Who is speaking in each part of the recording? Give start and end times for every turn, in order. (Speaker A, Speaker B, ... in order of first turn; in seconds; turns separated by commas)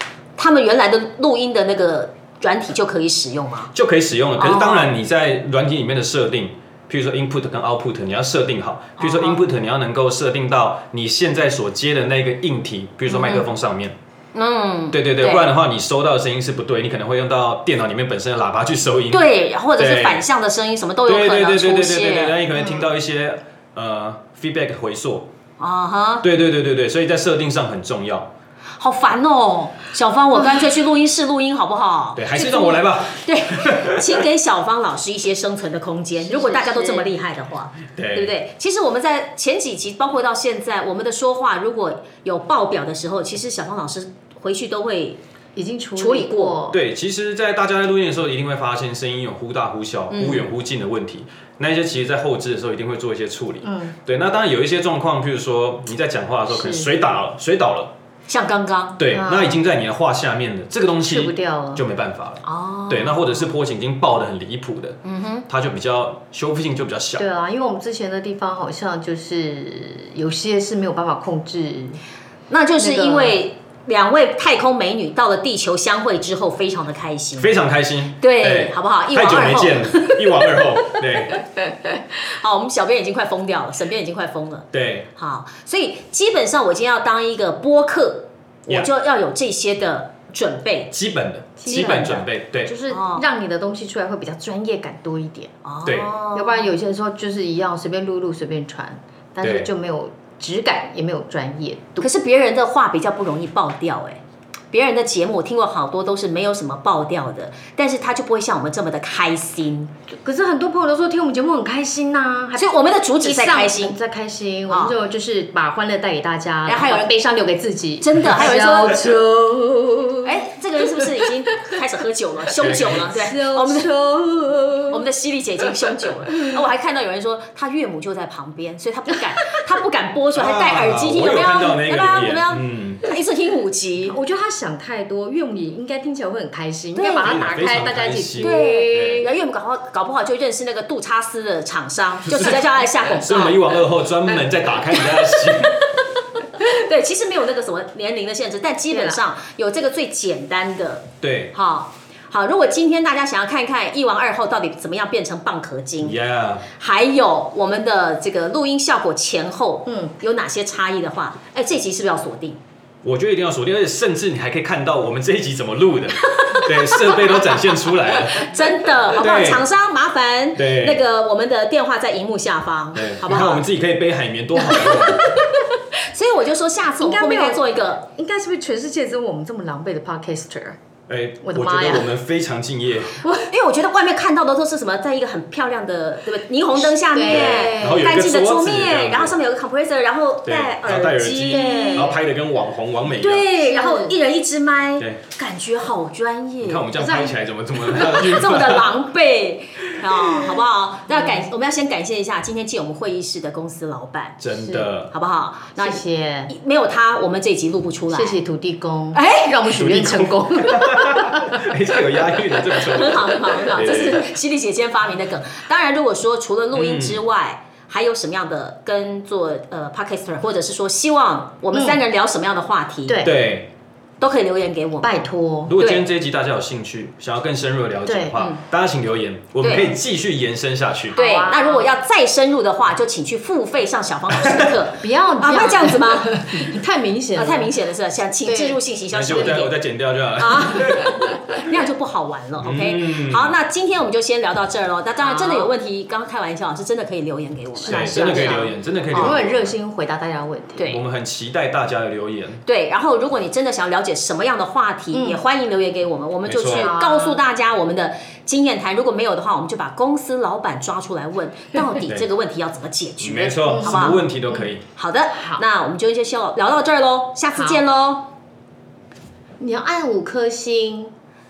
Speaker A: 0.4-3.7, Speaker B: 3.7-13.9, Speaker A: 4.4-4.9, Speaker A: 9.0-9.4, Speaker A: 13.1-13.4, Speaker A: 14.3-15.5, Speaker B: 14.9-20.2, Speaker A: 19.1-22.4, Speaker B: 21.1-25.3, Speaker C: 22.6-22.8, Speaker A: 25.6-26.3, Speaker B: 26.2-28.3, Speaker A: 28.8-45.2, Speaker B: 32.1-34.2, Speaker C: 36.3-37.1, Speaker B: 37.9-38.4, Speaker C: 45.6-46.8, Speaker A: 46.0-46.6, Speaker B: 46.7-57.9, Speaker A: 50.1-50.4, Speaker C: 53.6-53.9, Speaker C: 56.5-56.9, Speaker A: 58.3-59.0, Speaker B: 59.0-67.3, Speaker C: 59.1-59.6, Speaker C: 61.0-61.8, Speaker A: 62.4-63.4, Speaker A: 65.0-65.5, Speaker C: 67.2-72.0, Speaker A: 72.5-77.5, Speaker C: 72.8-73.4, Speaker B: 77.4-81.4, Speaker A: 78.2-81.0, Speaker A: 82.2-90.9, Speaker B: 84.7-85.1, Speaker B: 90.9-92.7, Speaker C: 91.6-95.5, Speaker A: 91.7-92.3, Speaker A: 92.9-93.2, Speaker A: 95.6-96.7, Speaker B: 95.9-96.1, Speaker C: 96.3-102.1, Speaker B: 99.4-99.7, Speaker A: 102.0-104.2, Speaker A: 104.7-109.9, Speaker C: 110.1-120.4, Speaker A: 112.6-114.0, Speaker A: 114.7-114.9, Speaker A: 116.6-117.1, Speaker A: 118.0-119.0, Speaker A: 120.2-123.9, Speaker C: 121.0-121.6, Speaker B: 122.6-123.1, Speaker C: 122.9-125.0, Speaker A: 124.9-134.1, Speaker C: 126.3-126.6, Speaker B: 130.3-133.0, Speaker C: 134.1-139.3, Speaker A: 136.9-137.3, Speaker B: 137.2-139.3, Speaker A: 138.4-143.8, Speaker B: 142.3-145.9, Speaker A: 146.4-156.2, Speaker C: 148.9-149.2, Speaker B: 151.2-151.5, Speaker B: 156.0-156.7, Speaker A: 156.8-162.6, Speaker C: 159.9-160.1, Speaker B: 163.0-169.7, Speaker A: 166.3-167.3, Speaker A: 168.3-173.7, Speaker B: 170.6-171.0, Speaker B: 172.9-175.4, Speaker C: 174.6-175.6, Speaker A: 175.9-178.1, Speaker C: 177.0-180.8, Speaker B: 181.1-183.2, Speaker C: 181.4-182.1, Speaker C: 183.2-183.5, Speaker A: 183.5-192.1, Speaker C: 186.8-188.1, Speaker B: 187.2-189.4, Speaker B: 190.4-193.5, Speaker C: 191.4-192.2, Speaker A: 193.1-196.9, Speaker C: 193.6-194.2, Speaker B: 196.6-198.9, Speaker C: 196.9-197.3, Speaker A: 197.9-204.4, Speaker C: 201.1-201.4, Speaker B: 204.4-205.1, Speaker C: 204.5-204.9, Speaker A: 205.1-208.4, Speaker C: 205.8-206.5, Speaker C: 208.1-211.8, Speaker A: 209.1-209.5, Speaker B: 209.7-214.3, Speaker A: 212.8-223.3, Speaker B: 216.7-217.2, Speaker C: 221.7-222.0, Speaker C: 223.1-223.4, Speaker B: 223.2-223.7, Speaker A: 224.2-225.1, Speaker C: 225.0-225.8, Speaker B: 225.7-231.2, Speaker A: 225.8-226.1, Speaker C: 228.1-228.4, Speaker A: 229.6-229.9, Speaker C: 231.1-231.9, Speaker A: 231.1-236.7, Speaker C: 235.0-237.7, Speaker A: 237.3-239.8, Speaker C: 238.4-239.6, Speaker B: 239.1-241.3, Speaker A: 240.4-249.4, Speaker C: 241.0-241.4, Speaker B: 242.6-243.6, Speaker C: 245.2-245.7, Speaker C: 247.8-250.9, Speaker B: 247.9-249.8, Speaker B: 250.8-252.6, Speaker A: 252.7-264.2, Speaker C: 255.1-255.4, Speaker B: 256.4-256.9, Speaker C: 256.7-257.4, Speaker B: 263.2-264.8, Speaker C: 263.7-264.7, Speaker A: 264.9-268.3, Speaker C: 265.4-265.6, Speaker C: 267.5-267.8, Speaker C: 269.6-271.1